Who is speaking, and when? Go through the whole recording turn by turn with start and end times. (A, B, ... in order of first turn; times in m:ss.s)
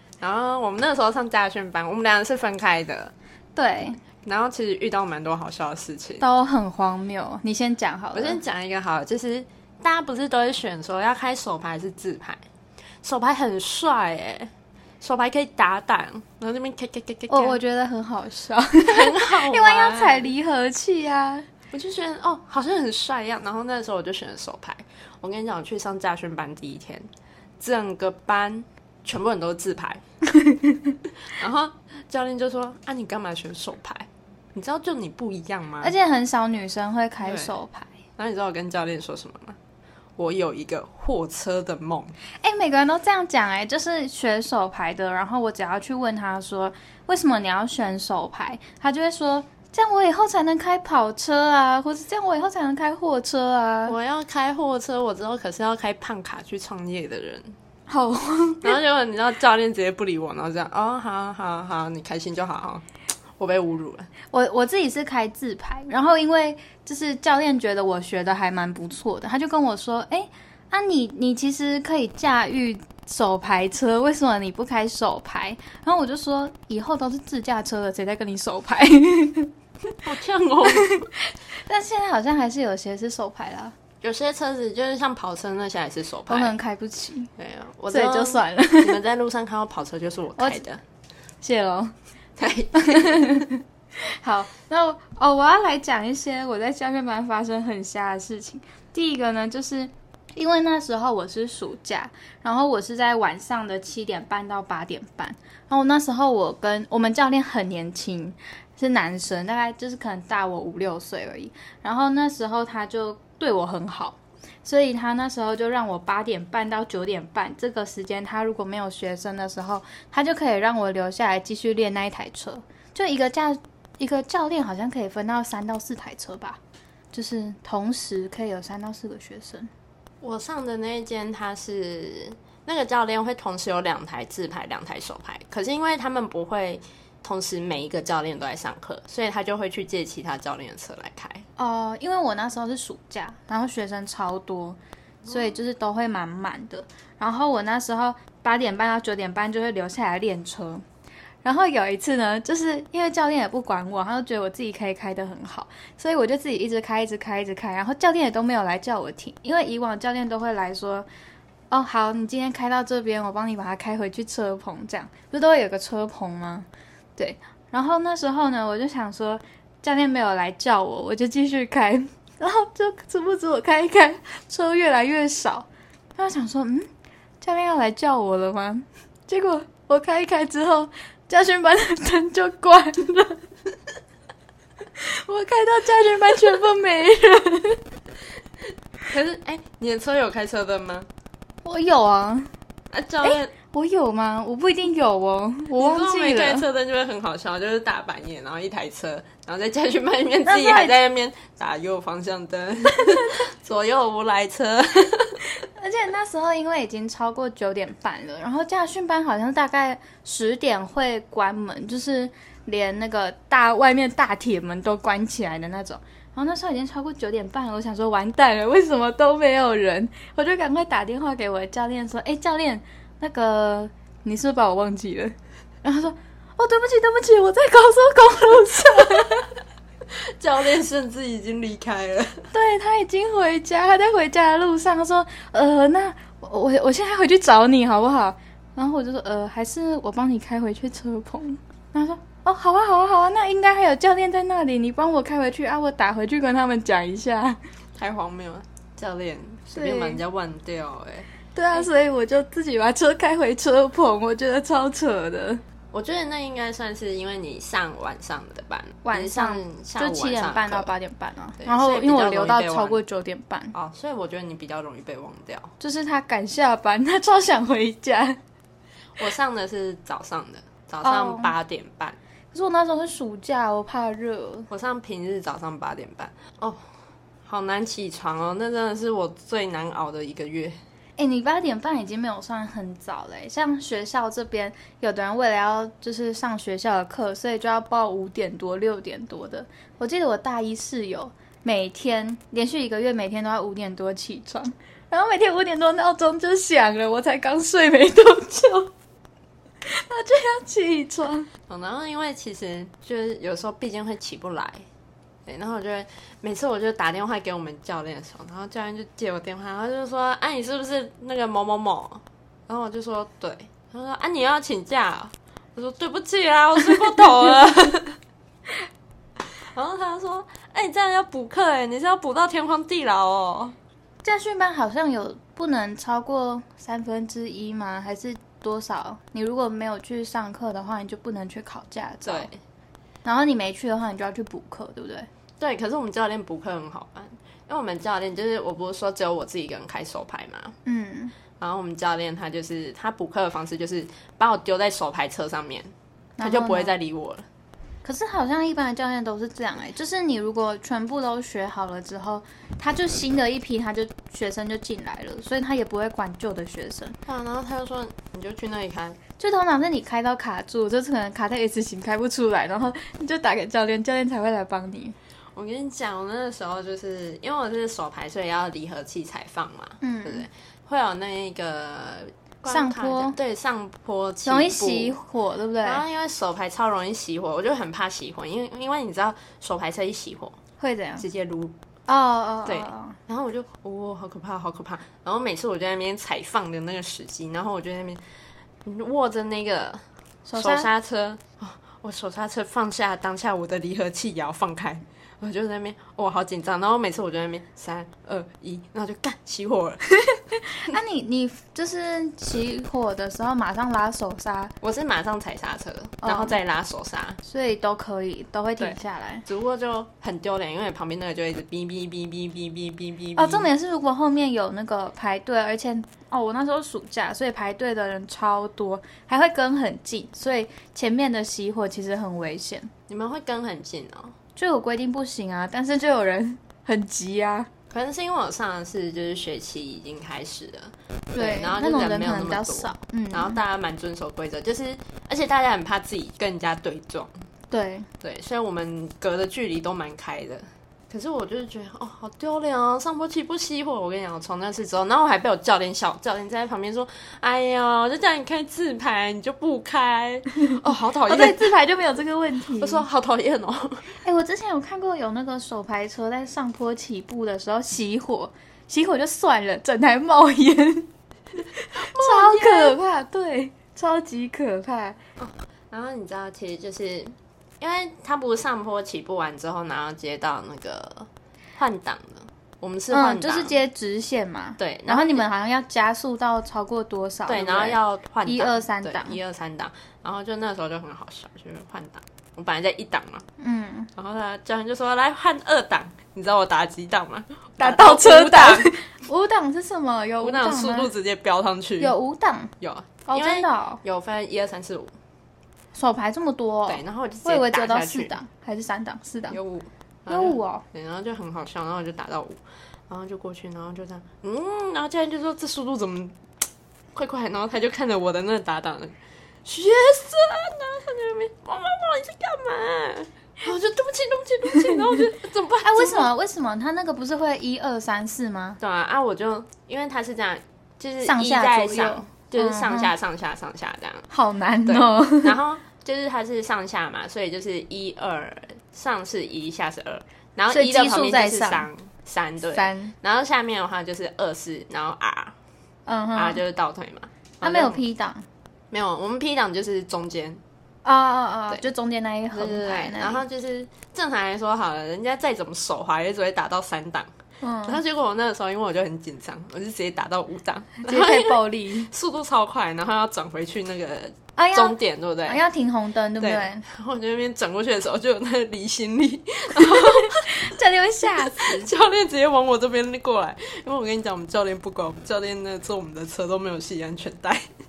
0:00.2-0:03.1 A
0:03.6-0:04.0 B
0:04.2-0:06.2 A
0:06.2-0:08.4 B
0:08.1-0:12.4 A
0:13.0-0:17.6 A
0:17.3-0:21.4 B
0:18.8-0:20.3 A
0:21.7-0:27.1 A
0:27.6-0:30.0 A
0:30.3-0:31.0 B
0:31.3-0:35.9 A
0:35.8-0:37.9 B
0:37.2-0:37.5 A
0:38.2-0:39.6 A
0:40.2-0:42.2 A
0:42.4-0:54.0 B
0:53.9-0:57.5 A
0:57.9-0:58.8 B
0:58.6-1:02.8 A
1:03.4-1:04.1 A
1:04.3-1:19.5 B
1:20.0-1:21.1 A
1:20.7-1:21.1 B
1:21.6-1:23.7 B
1:24.0-1:26.6 A
1:26.3-1:27.3 B
1:27.4-1:30.8 A
1:27.9-1:29.0 B
1:30.4-1:30.6 B
1:31.4-1:31.9 B
1:32.4-1:33.5 A
1:32.7-2:06.6 B
2:07.1-2:09.7 B
2:10.2-2:21.4 A
2:21.6-2:30.8 B
2:31.4-2:41.0 B
2:41.7-2:56.9 B
2:57.4-3:03.4 B
3:05.0-3:07.8 B
3:09.1-3:11.1 A
3:11.6-3:12.5 B
3:12.9-3:13.5 A
3:13.2-3:16.6 B
3:15.8-3:25.4 A
3:20.4-3:21.0 B
3:25.6-3:49.6 B
3:50.1-3:52.5 A
3:52.5-4:07.6 B
4:08.0-4:11.9 A
4:09.7-4:10.2 B
4:11.5-4:15.6 B
4:15.9-4:20.9 A
4:19.0-4:23.7 B
4:21.6-4:23.0 A
4:23.7-4:25.7 A
4:25.8-4:28.4 B
4:29.2-4:32.2 A
4:31.0-4:31.5 B
4:32.5-4:34.7 B
4:34.7-4:36.8 A
4:37.4-4:40.8 A
4:41.2-4:58.9 B
4:59.8-5:01.5 B
5:01.7-5:04.8 A
5:05.4-5:18.2 A
5:19.6-5:23.8 A
5:24.2-5:32.5 B
5:32.2-5:32.6 A
5:33.2-5:35.3 B
5:35.6-5:40.8 A
5:40.8-5:41.3 B
5:41.6-5:47.5 A
5:46.4-5:46.9 B
5:48.0-5:57.2 B
5:57.2-5:59.2 A
5:59.4-6:05.2 B
6:05.5-6:15.2 A
6:10.0-6:10.5 B
6:12.7-6:13.4 B
6:14.4-6:16.0 B
6:15.8-6:20.6 A
6:20.8-6:21.2 B
6:21.2-6:21.7 A
6:22.1-6:23.2 B
6:22.6-6:28.2 A
6:28.8-6:40.0 A
6:30.4-6:30.9 B
6:40.5-6:44.7 B
6:44.8-6:47.4 A
6:46.2-6:46.6 B
6:47.4-6:49.4 B
6:48.8-6:53.7 A
6:53.4-7:02.9 B
7:03.1-7:04.3 A
7:04.6-7:07.7 B
7:07.9-7:17.3 A
7:11.4-7:13.6 B
7:17.7-7:18.1 B
7:18.2-7:31.7 A
7:30.7-7:33.0 B
7:32.8-7:34.1 A
7:34.2-7:45.2 B
7:42.0-7:43.0 A
7:45.4-7:53.8 A
7:53.1-7:59.4 B
7:54.8-7:55.4 A
7:57.5-8:03.4 A
8:03.6-8:04.1 B
8:04.1-8:08.9 A
8:07.8-8:11.1 B
8:10.4-8:12.1 A
8:12.0-8:12.7 B
8:12.8-8:15.1 A
8:13.3-8:14.0 B
8:15.9-8:19.6 B
8:16.9-8:18.4 A
8:19.5-8:26.4 A
8:20.3-8:20.8 B
8:27.1-8:36.3 A
8:35.8-8:38.8 B
8:38.8-8:44.3 A
8:41.2-8:43.1 B
8:44.3-8:45.6 B
8:44.8-8:55.6 A
8:50.7-8:51.9 B
8:52.7-8:53.1 B
8:56.1-8:56.6 B
8:56.3-8:58.0 A
8:57.6-8:58.4 B
8:58.9-9:00.6 A
9:01.0-9:03.4 B
9:02.5-9:07.3 A
9:07.6-9:08.0 B
9:07.8-9:15.6 A
9:11.0-9:12.1 B
9:14.6-9:16.8 B
9:16.4-9:20.5 A
9:19.8-9:21.9 B
9:21.6-9:27.7 A